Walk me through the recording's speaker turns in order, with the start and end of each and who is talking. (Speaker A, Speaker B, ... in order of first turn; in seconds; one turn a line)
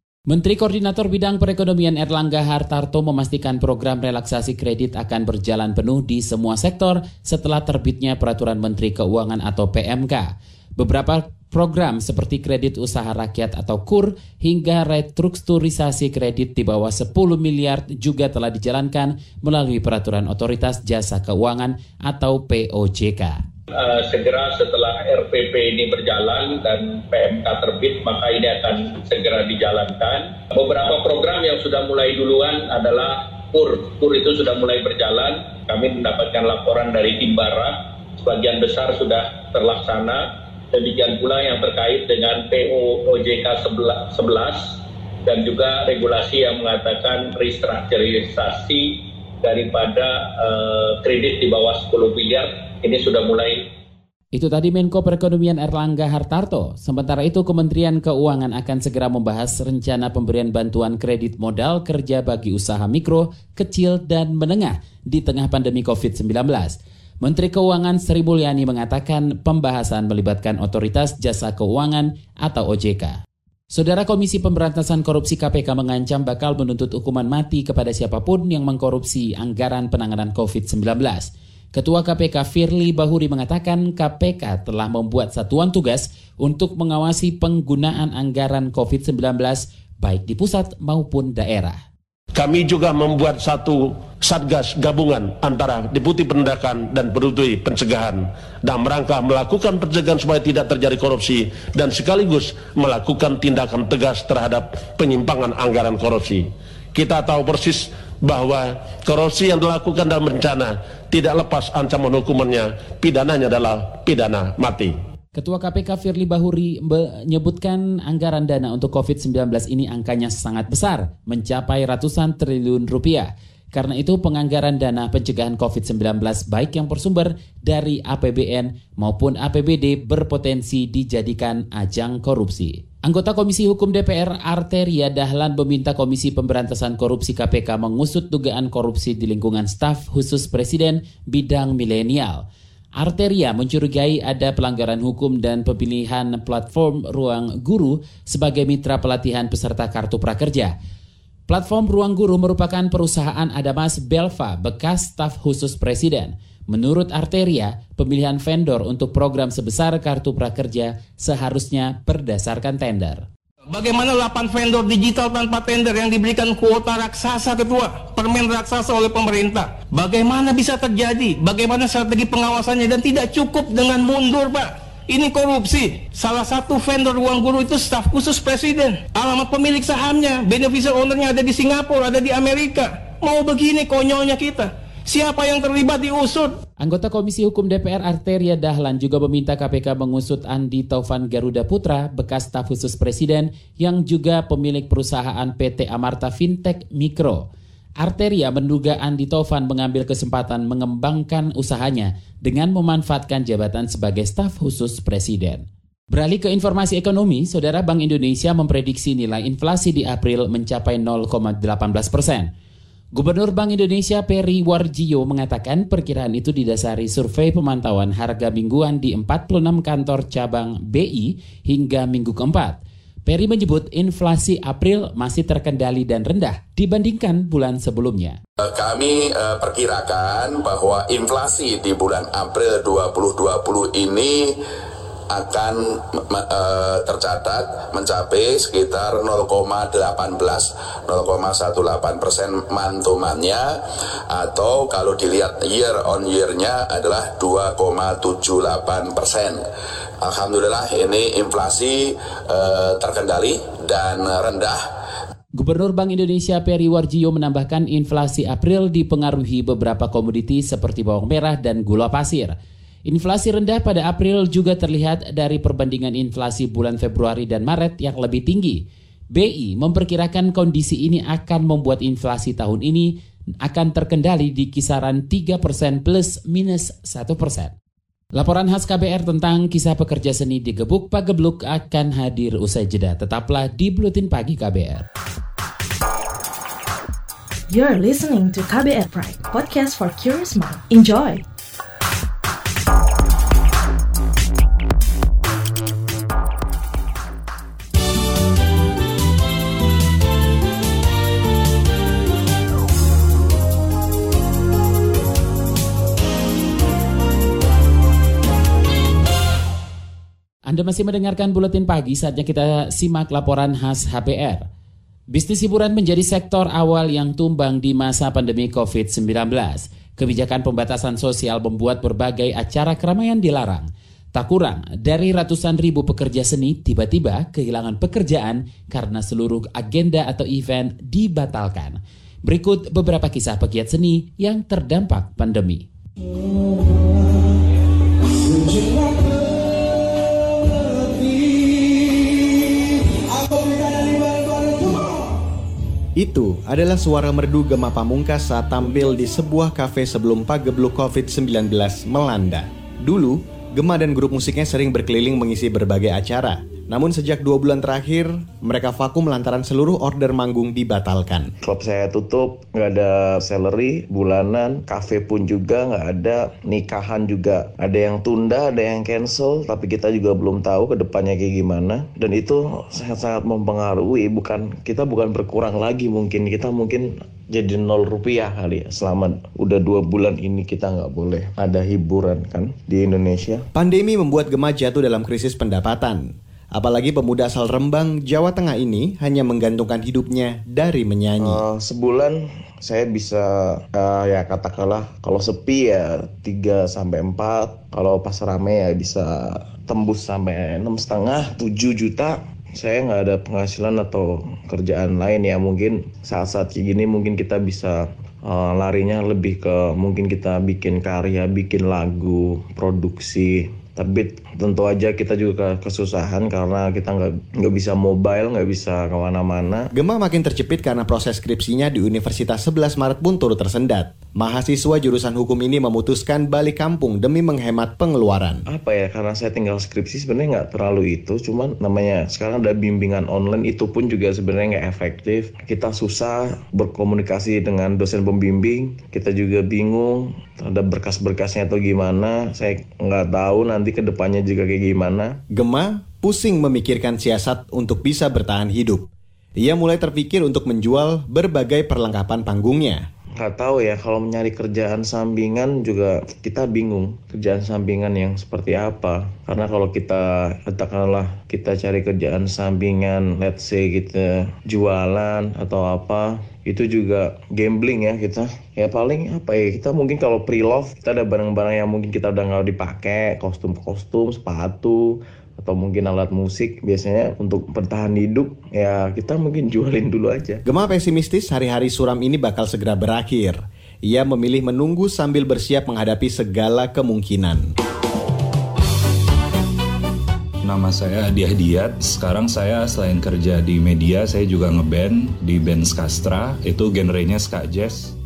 Speaker A: 0.3-23.4
Speaker B: 23.7-53.6
Speaker A: 54.3-73.2
Speaker A: 73.7-91.8
Speaker C: 92.3-114.9
Speaker A: 115.3-142.4
Speaker A: 143.0-150.7
Speaker A: 151.5-163.2
Speaker D: 163.7-186.6
Speaker A: 186.8-197.4
Speaker A: 198.0-212.5
Speaker A: 213.1-228.4
Speaker E: 228.6-234.6
Speaker E: 235.3-243.8
Speaker E: 244.3-249.6
Speaker E: 250.2-254.8
Speaker A: 255.6-262.5
Speaker A: 263.1-268.8
Speaker A: 269.3-273.1
Speaker A: 273.6-277.7
Speaker A: 278.3-285.0
Speaker F: 287.7-291.4
Speaker A: 310.7-314.6
Speaker A: 315.3-335.9
Speaker G: 346.2-361.5
Speaker H: 361.6-383.6
Speaker G: 383.7-391.6
Speaker H: 391.4-419.9
Speaker G: 419.9-428.6
Speaker H: 428.7-445.4
Speaker G: 445.5-449.1
Speaker G: 449.6-453.0
Speaker H: 453.4-480.6
Speaker G: 480.6-487.6
Speaker I: 490.6-498.1